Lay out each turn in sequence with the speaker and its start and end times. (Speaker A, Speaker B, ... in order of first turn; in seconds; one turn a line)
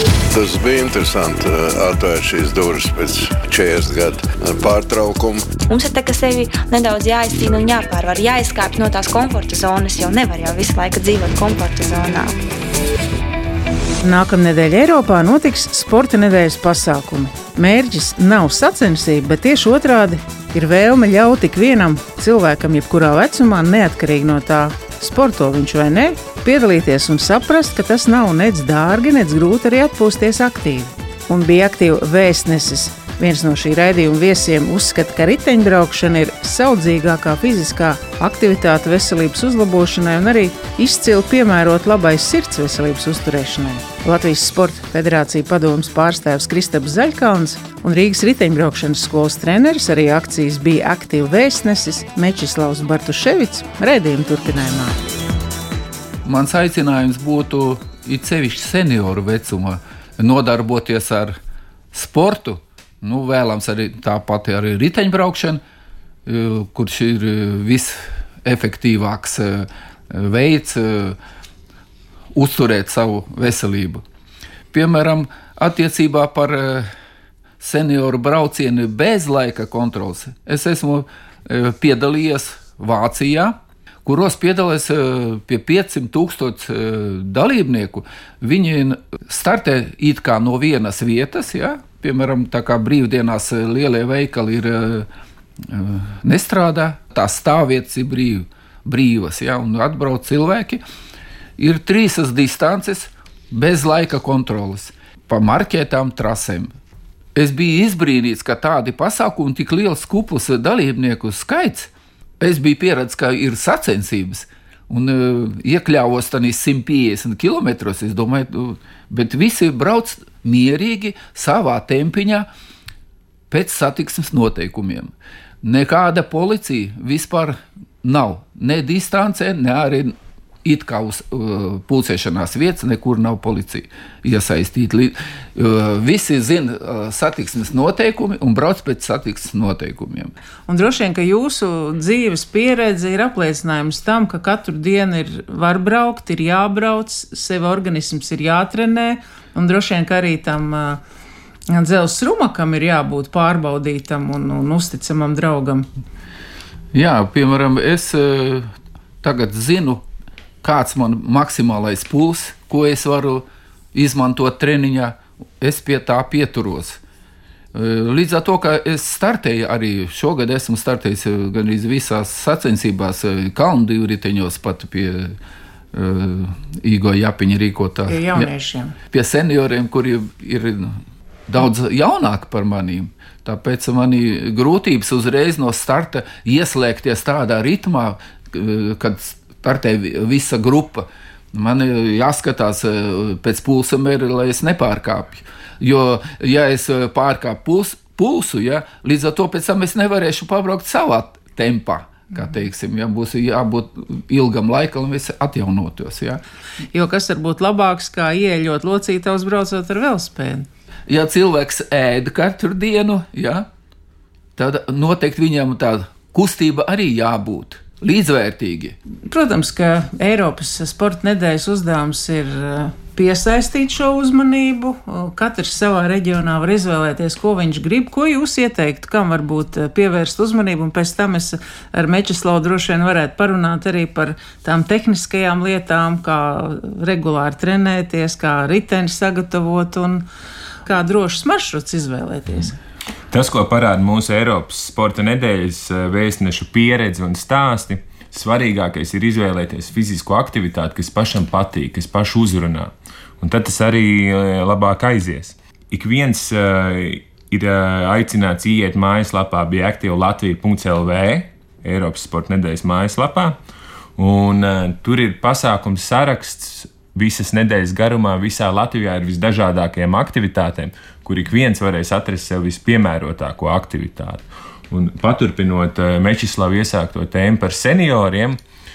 Speaker A: 0.3-5.6
Speaker B: 5.6-12.3
Speaker C: 14.0-55.0
Speaker D: 56.2-61.4
Speaker D: 61.9-65.6
Speaker D: 66.2-71.2
Speaker D: 72.3-74.0
Speaker D: 74.7-76.9
Speaker D: 77.6-95.1
Speaker D: 95.6-100.8
Speaker D: 101.6-106.7
Speaker D: 107.3-122.5
Speaker D: 123.5-125.1
Speaker D: 125.6-140.3
Speaker C: 140.7-151.0
Speaker C: 151.7-155.9
Speaker D: 156.9-160.0
Speaker D: 160.6-167.0
Speaker D: 167.7-175.3
Speaker D: 175.9-178.5
Speaker C: 178.1-178.9
Speaker D: 179.1-206.4
Speaker C: 206.9-210.7
Speaker D: 211.1-213.7
Speaker D: 214.6-219.0
Speaker C: 219.3-240.2
Speaker C: 240.8-242.8
Speaker E: 243.3-263.6
Speaker E: 264.2-278.6